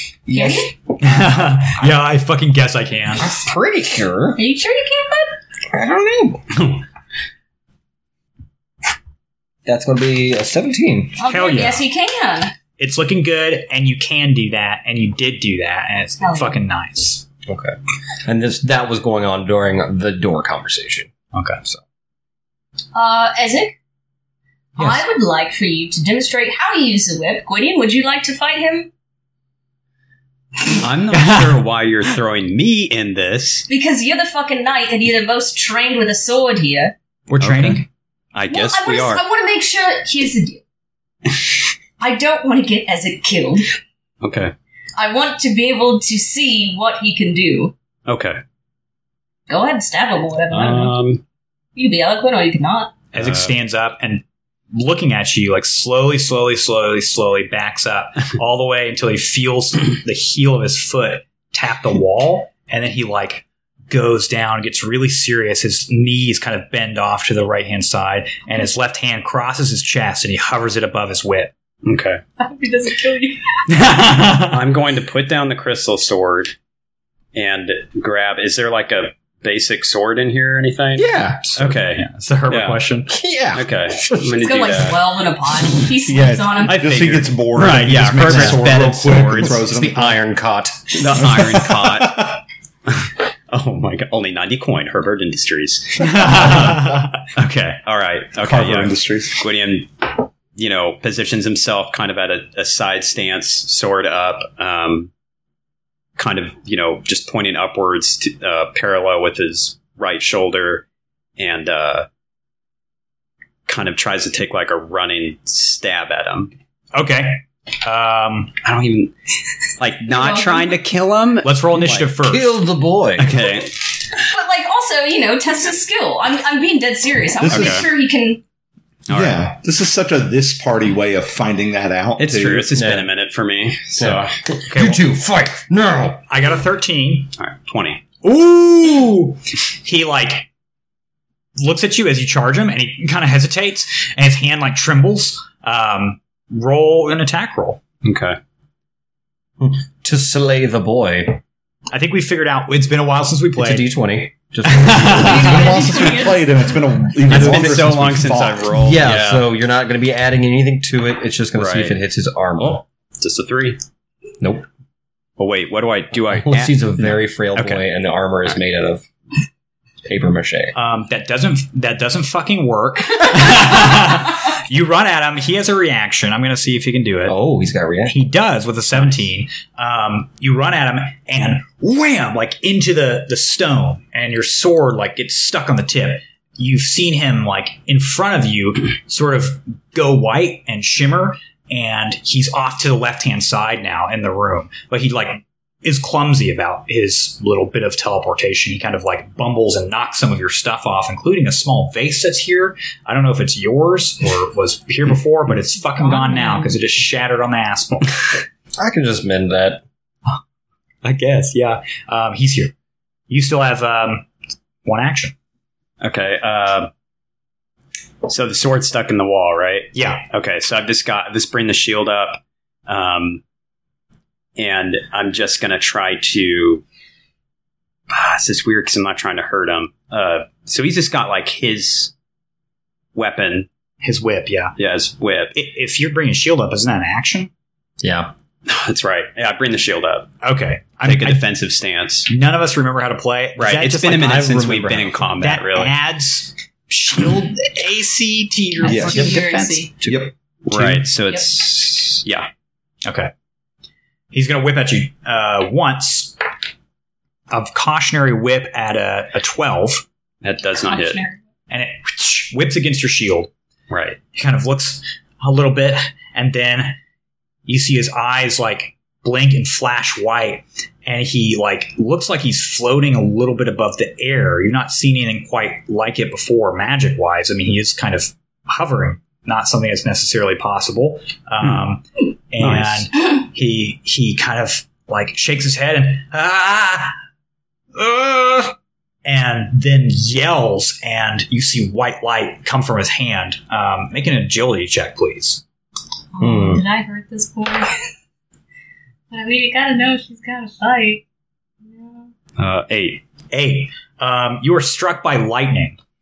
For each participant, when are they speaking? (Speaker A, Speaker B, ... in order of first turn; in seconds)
Speaker A: 0.3-1.2, 3.2-4.4, 5.7-6.5, 9.7-11.2, 17.5-21.1, 81.0-81.8, 83.1-84.4, 88.2-91.8, 122.2-123.4, 132.8-133.1, 134.0-136.2, 149.6-151.4, 153.6-155.9, 157.3-158.0, 158.8-162.8, 164.4-164.7, 166.3-169.1, 170.1-170.8, 177.3-178.2, 208.8-209.8, 238.0-238.3, 244.2-245.2, 250.0-250.3, 296.4-296.8
Speaker B: 0.3-0.7, 4.4-5.4, 11.2-12.5, 16.2-16.6, 22.9-23.8, 24.8-28.9, 33.7-36.9, 38.5-40.6, 42.0-43.8, 45.0-47.7, 49.5-51.0, 51.8-53.0, 72.4-73.5, 84.4-86.9, 120.1-120.8, 124.2-128.4, 155.2-156.8, 206.0-206.8, 248.8-249.9, 260.8-261.4, 296.3-297.9, 299.3-301.2, 301.8-302.3
Speaker C: 1.0-3.3, 11.3-11.8, 12.8-17.2, 21.3-21.6, 24.8-25.1, 31.1-31.6, 37.3-37.9, 53.1-71.5, 73.7-74.6, 82.0-83.1, 96.0-97.1, 116.9-118.5, 121.4-122.6, 134.7-135.1, 136.3-137.3, 138.2-140.5, 141.6-147.8, 151.9-153.9, 154.7-155.3, 170.8-177.3, 178.1-208.3, 211.0-212.7, 213.3-214.3, 214.8-215.3, 219.9-220.2, 234.0-234.8, 235.6-237.5, 240.4-241.4, 242.3-244.5, 245.4-249.9, 253.1-253.3, 254.3-256.4, 257.5-260.1, 261.7-263.5, 264.3-267.0, 267.7-287.1, 287.9-288.7, 289.2-295.6, 303.5-306.0
Speaker D: 30.8-33.7, 37.4-39.2, 44.2-44.5, 48.1-48.4, 50.5-51.2, 53.2-53.5, 71.8-72.2, 74.2-76.5, 77.3-82.8, 83.5-85.0, 86.7-89.6, 91.0-105.1, 106.2-110.8, 111.4-112.1, 113.7-116.5, 118.6-119.1, 119.8-122.2, 123.2-123.7, 127.5-127.9, 129.1-129.5, 132.2-134.4, 137.4-138.1, 148.0-148.4, 157.3-159.5, 161.6-162.0, 162.6-163.8, 165.4-167.8, 216.0-216.9, 218.2-223.4, 224.6-226.8, 228.1-232.1, 233.2-233.7, 234.8-235.5, 238.7-240.3, 241.0-242.3, 243.6-245.9, 250.7-252.5, 260.4-261.2, 263.9-264.2, 282.6-283.1, 302.6-303.2
Speaker E: 86.1-90.2, 91.2-92.4, 98.4-99.4, 127.4-127.8, 129.1-132.7, 155.3-158.7, 248.8-249.3, 250.1-250.3